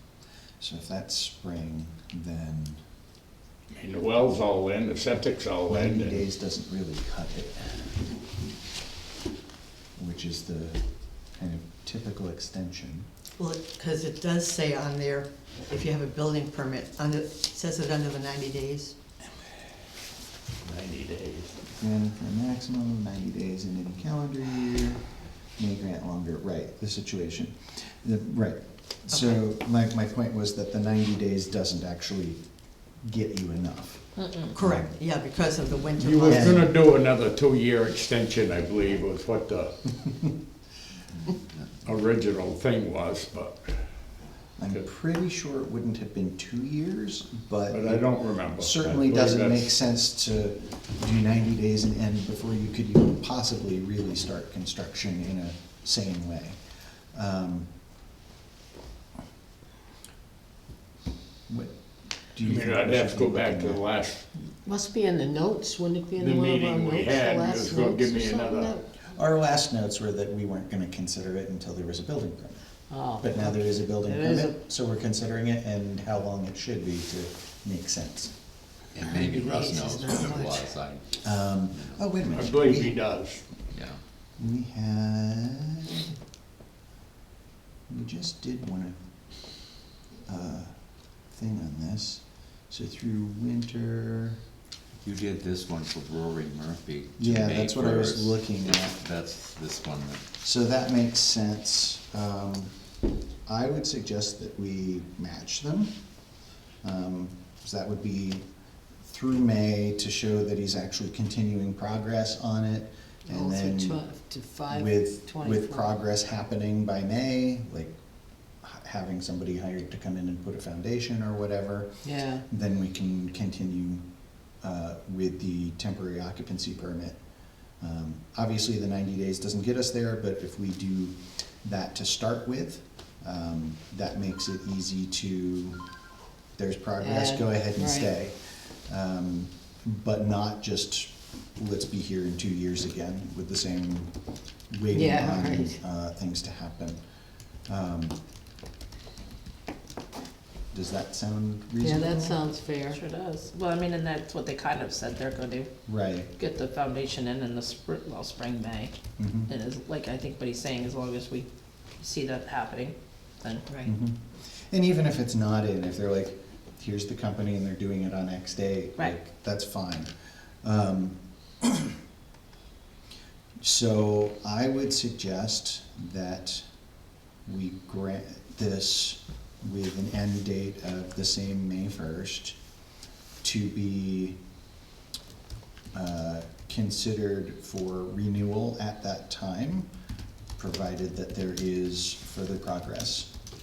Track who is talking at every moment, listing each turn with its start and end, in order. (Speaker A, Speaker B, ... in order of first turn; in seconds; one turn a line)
Speaker A: 0.6-2.8
Speaker B: 3.7-6.2
Speaker A: 5.7-7.8
Speaker A: 9.9-13.1
Speaker C: 13.3-18.9
Speaker B: 20.6-21.6
Speaker A: 21.8-34.9
Speaker C: 29.1-29.4
Speaker D: 34.2-34.5
Speaker C: 34.5-36.7
Speaker B: 36.0-39.7
Speaker A: 36.3-36.7
Speaker E: 41.2-41.7
Speaker B: 41.8-44.1
Speaker A: 44.6-56.6
Speaker B: 47.7-49.7
Speaker A: 57.1-57.7
Speaker A: 61.5-63.9
Speaker B: 62.4-64.2
Speaker F: 64.6-68.8
Speaker B: 66.2-68.8
Speaker A: 69.1-78.3
Speaker F: 72.9-74.6
Speaker E: 78.9-82.0
Speaker C: 79.0-80.6
Speaker A: 81.2-83.0
Speaker B: 82.3-83.4
Speaker E: 83.7-84.0
Speaker A: 84.4-86.1
Speaker A: 87.9-89.0
Speaker A: 90.2-94.4
Speaker E: 95.0-100.2
Speaker A: 97.2-99.0
Speaker A: 100.4-102.8
Speaker A: 103.5-106.0
Speaker A: 106.8-108.4
Speaker A: 109.0-114.0
Speaker F: 113.3-115.9
Speaker A: 114.7-118.0
Speaker A: 118.6-135.8
Speaker F: 122.0-122.4
Speaker A: 136.6-144.1
Speaker F: 137.0-138.1
Speaker A: 144.7-147.0
Speaker F: 144.9-145.8
Speaker A: 147.7-148.2
Speaker A: 150.7-152.4
Speaker F: 151.8-153.0
Speaker D: 152.9-155.7
Speaker A: 155.9-156.3
Speaker D: 156.3-158.9
Speaker A: 159.2-159.5
Speaker D: 159.4-161.5
Speaker D: 162.0-163.8
Speaker A: 163.8-170.1
Speaker A: 170.6-171.9
Speaker A: 173.6-176.6
Speaker A: 177.4-182.6
Speaker A: 183.4-184.4
Speaker A: 185.9-189.9
Speaker A: 190.6-193.3